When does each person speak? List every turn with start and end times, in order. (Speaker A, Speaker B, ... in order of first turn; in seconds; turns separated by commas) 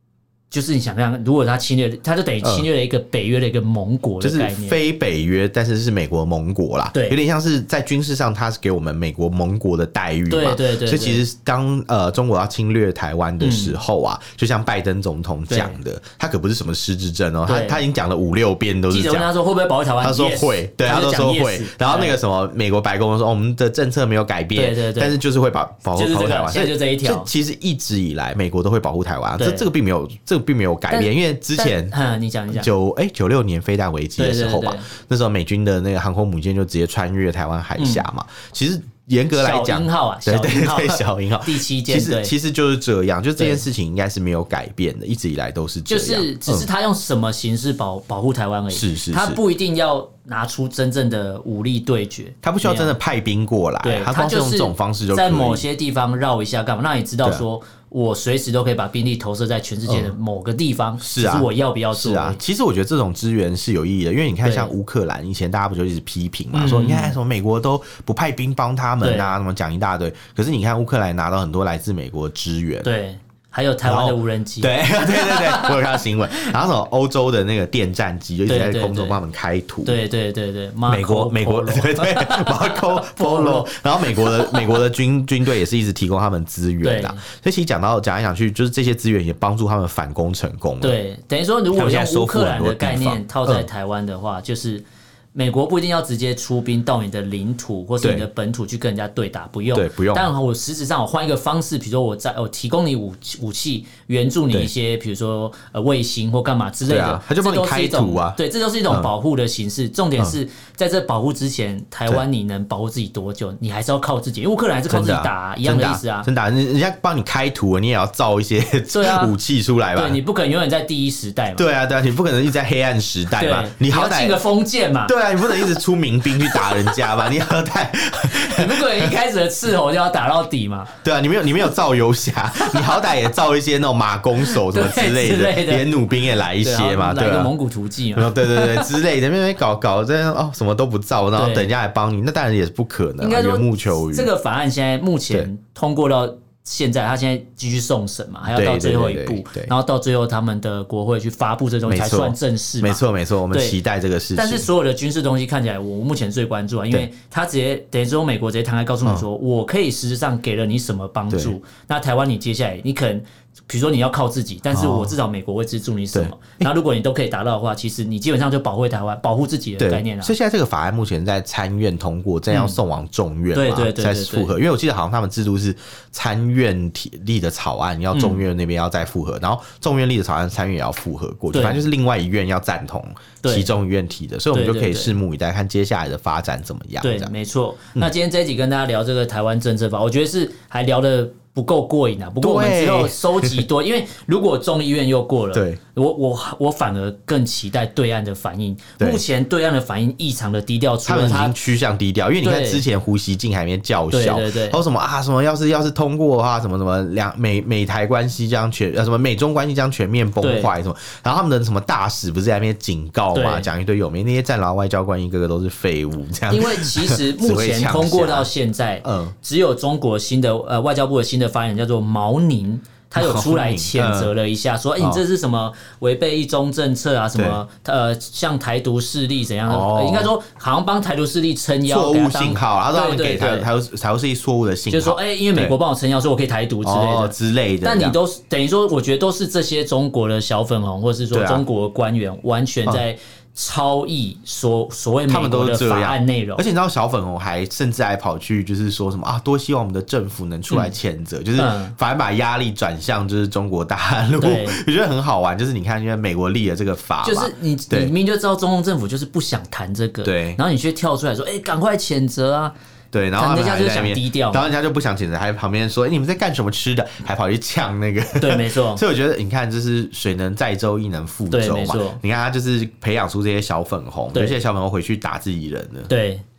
Speaker A: 0.5-4.8, Speaker B: 2.4-2.7, Speaker B: 4.2-19.3, Speaker A: 10.3-11.2, Speaker A: 13.4-13.8, Speaker A: 15.5-15.8, Speaker A: 17.5-17.8, Speaker A: 18.9-22.2, Speaker B: 20.0-31.9, Speaker A: 24.6-25.1, Speaker A: 25.9-27.3, Speaker A: 29.4-29.7, Speaker A: 30.9-32.7, Speaker B: 32.5-46.7, Speaker A: 34.2-34.9, Speaker A: 37.8-38.1, Speaker A: 39.3-42.3, Speaker A: 43.4-43.6, Speaker A: 45.9-52.9, Speaker B: 48.7-49.4, Speaker B: 52.4-55.6, Speaker A: 53.8-62.4, Speaker B: 59.9-60.1, Speaker B: 61.0-72.9, Speaker A: 64.4-64.7, Speaker A: 66.5-67.2, Speaker A: 69.0-69.3, Speaker A: 72.8-76.5, Speaker B: 73.8-80.0, Speaker A: 78.5-79.2, Speaker A: 79.8-84.7, Speaker B: 80.9-91.0, Speaker A: 86.8-87.2, Speaker A: 90.8-116.3, Speaker B: 91.7-93.7, Speaker B: 98.0-98.3, Speaker B: 99.7-100.3, Speaker B: 106.9-109.1, Speaker B: 114.9-120.2, Speaker A: 118.9-119.3, Speaker A: 120.0-121.7, Speaker B: 121.5-124.4, Speaker A: 123.3-125.6, Speaker B: 125.1-129.1, Speaker A: 126.4-127.0, Speaker A: 128.3-130.9, Speaker B: 131.0-137.5, Speaker A: 132.6-133.0, Speaker A: 134.5-135.9, Speaker A: 136.6-138.9, Speaker B: 138.2-144.3, Speaker A: 141.3-141.7, Speaker A: 143.2-153.8, Speaker B: 148.5-149.7, Speaker B: 151.9-154.7, Speaker A: 154.4-170.3, Speaker B: 164.7-165.2, Speaker B: 166.1-166.7, Speaker B: 169.8-187.3, Speaker A: 172.5-172.8, Speaker A: 173.5-174.5, Speaker A: 178.1-178.4, Speaker A: 181.5-181.8, Speaker A: 183.4-183.8, Speaker A: 184.5-185.2, Speaker A: 187.0-201.6, Speaker B: 192.4-193.7, Speaker B: 195.5-195.8, Speaker B: 201.1-218.5, Speaker A: 202.4-202.8, Speaker A: 204.1-204.8, Speaker A: 210.4-210.7, Speaker A: 213.3-213.7, Speaker A: 216.5-233.7, Speaker B: 219.0-219.3, Speaker B: 223.2-224.3, Speaker B: 227.4-227.6, Speaker B: 229.7-230.3, Speaker B: 231.9-235.8, Speaker A: 234.9-246.7, Speaker B: 236.8-238.2, Speaker B: 241.3-241.7, Speaker B: 245.3-258.1, Speaker A: 251.6-251.9, Speaker A: 254.4-254.8, Speaker A: 257.2-262.8, Speaker B: 260.2-260.6, Speaker B: 263.1-276.1, Speaker A: 263.4-264.7, Speaker A: 268.4-269.0, Speaker A: 271.5-272.2, Speaker A: 276.1-276.4